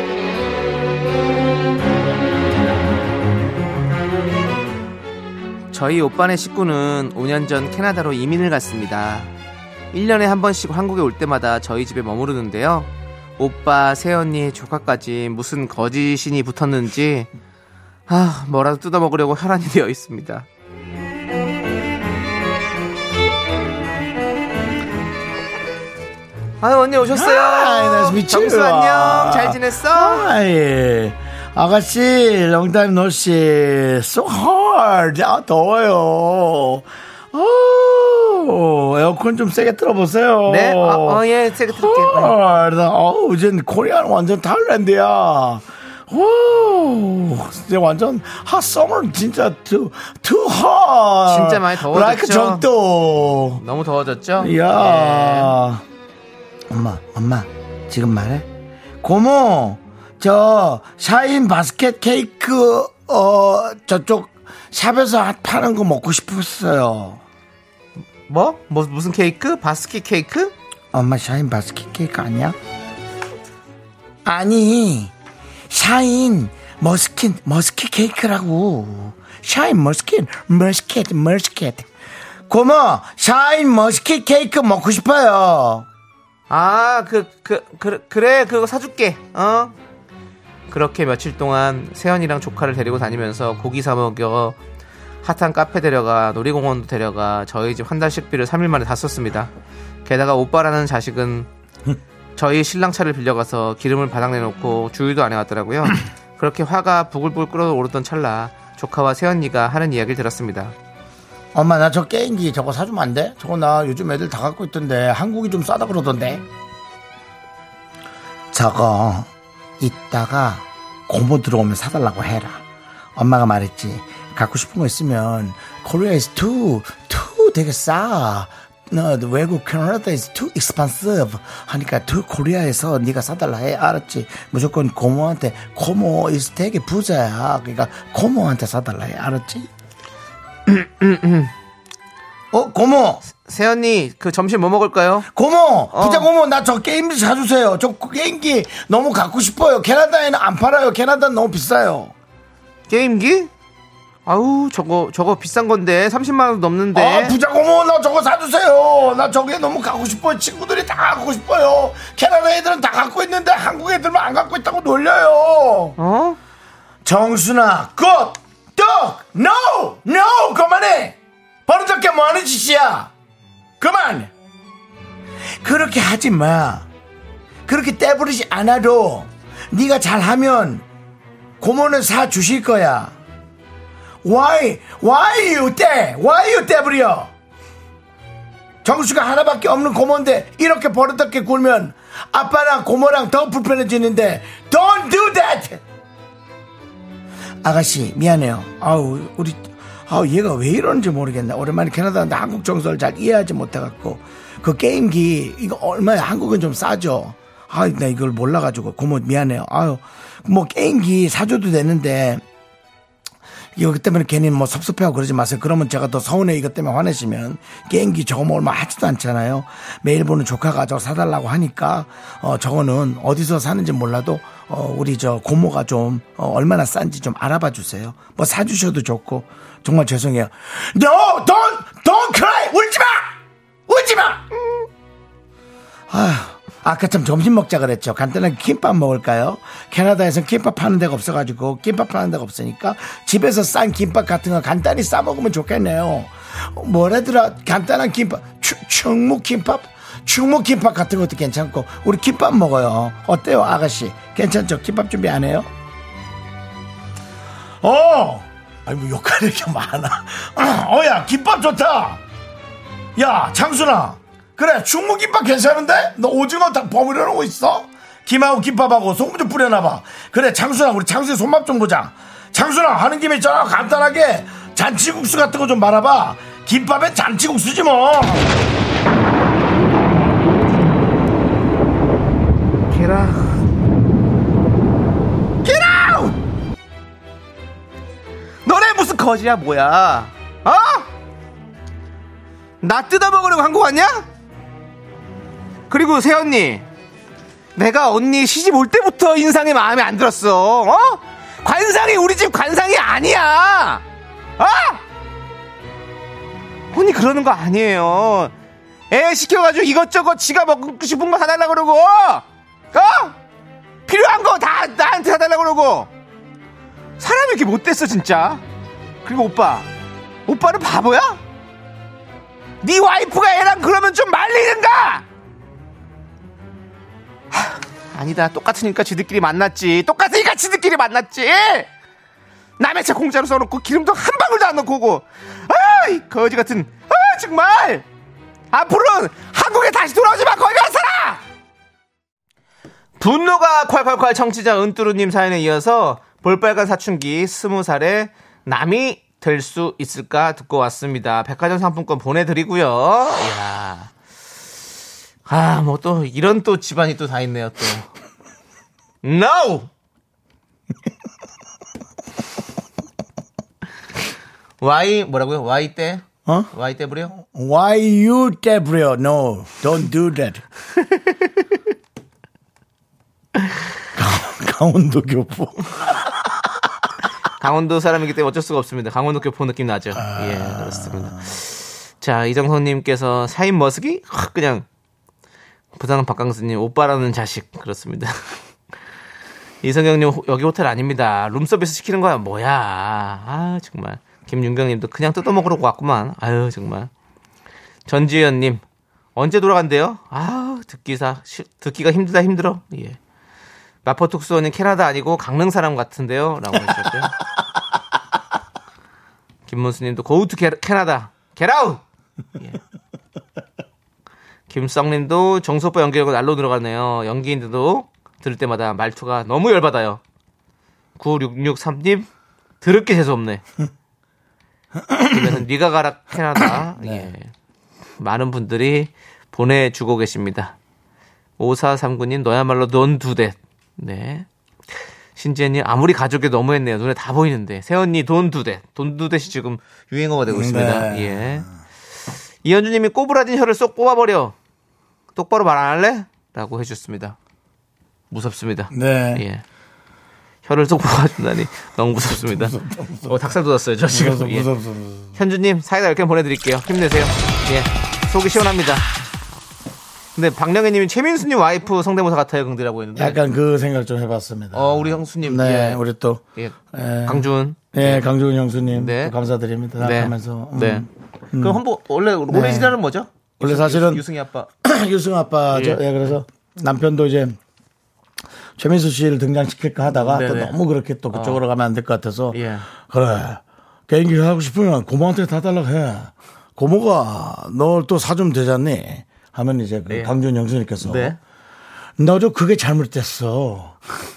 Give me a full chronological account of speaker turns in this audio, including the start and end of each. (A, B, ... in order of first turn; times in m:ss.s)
0:05.7-0:09.3 A
0:09.9-0:17.3 A
0:18.1-0:20.5 A
0:26.6-0:30.3 A
0:27.1-0:53.6 B
0:40.5-0:42.4 A
0:51.3-0:52.7 A
0:53.6-0:55.6 A
0:54.4-0:55.8 B
0:56.7-0:58.5 B
0:59.0-1:07.2 B
1:08.3-1:10.5 A
1:10.9-1:12.6 B
1:14.2-1:15.1 B
1:15.7-1:21.9 B
1:22.5-1:25.9 B
1:26.5-1:29.8 A
1:30.7-1:34.6 A
1:35.2-1:39.5 A
1:40.0-1:41.5 A
1:42.4-1:50.7 A
1:51.5-1:56.4 B
1:58.5-2:02.6 B
2:03.2-2:19.7 B
2:20.7-2:21.5 A
2:22.5-2:23.2 B
2:23.3-2:25.3 A
2:25.3-2:32.1 B
2:25.9-2:26.3 A
2:32.9-2:33.5 A
2:34.3-2:37.4 A
2:36.9-2:46.0 B
2:46.0-2:46.4 A
2:47.0-2:53.1 B
2:53.8-2:54.3 B
2:55.6-2:56.9 B
2:57.7-3:00.8 B
3:01.6-3:03.1 B
3:04.2-3:07.3 B
3:08.8-3:15.8 B
3:17.6-3:32.4 B
3:33.8-3:54.4 B
3:56.1-4:15.7 B
4:17.8-4:22.2 B
4:23.2-4:38.5 B
4:42.9-4:43.6 A
4:45.6-4:46.4 A
4:48.7-4:51.1 A
4:52.8-4:54.3 A
4:55.9-4:56.8 A
4:57.8-5:04.0 A
5:04.6-5:05.0 A
5:06.9-5:08.5 A
5:09.1-5:13.4 A
5:14.1-5:16.1 A
5:17.2-5:18.6 A
5:19.2-5:19.9 A
5:20.5-5:21.4 A
5:22.8-5:25.2 A
5:27.5-5:31.9 A
5:32.8-5:38.0 A
5:38.7-5:41.4 A
5:43.2-5:54.1 A
5:55.5-5:58.1 A
5:59.2-5:59.9 A
6:04.8-6:07.3 A
6:06.4-6:06.7 B
6:07.3-6:10.6 B
6:14.1-6:16.5 B
6:17.6-6:24.9 A
6:20.2-6:21.4 B
6:26.0-6:28.6 A
6:29.8-6:37.1 A
6:38.1-6:38.8 A
6:39.4-6:43.2 A
6:44.0-6:47.4 A
6:49.7-6:52.0 A
6:54.7-7:00.2 A
7:01.2-7:02.3 A
7:02.8-7:03.6 A
7:05.1-7:05.5 B
7:05.2-7:07.5 A
7:07.0-7:07.3 B
7:08.2-7:10.8 A
7:11.6-7:14.5 A
7:15.4-7:21.7 A
7:20.5-7:21.7 B
7:22.6-7:24.6 A
7:25.4-7:27.4 A
7:28.3-7:29.6 A
7:28.9-7:29.4 B
7:30.7-7:34.7 A
7:32.4-7:33.4 B
7:34.1-7:35.4 B
7:35.4-7:39.1 A
7:40.4-7:43.4 A
7:43.2-7:51.8 B
7:44.7-7:46.0 A
7:46.6-7:48.3 A
7:48.9-7:49.4 A
7:50.0-7:54.7 A
7:52.5-7:53.0 B
7:53.6-7:54.2 B
7:54.8-7:57.6 B
7:55.7-7:56.3 A
7:58.8-8:11.4 B
8:00.2-8:00.8 A
8:01.3-8:01.6 A
8:02.5-8:02.9 A
8:11.0-8:11.4 A
8:12.2-8:14.0 B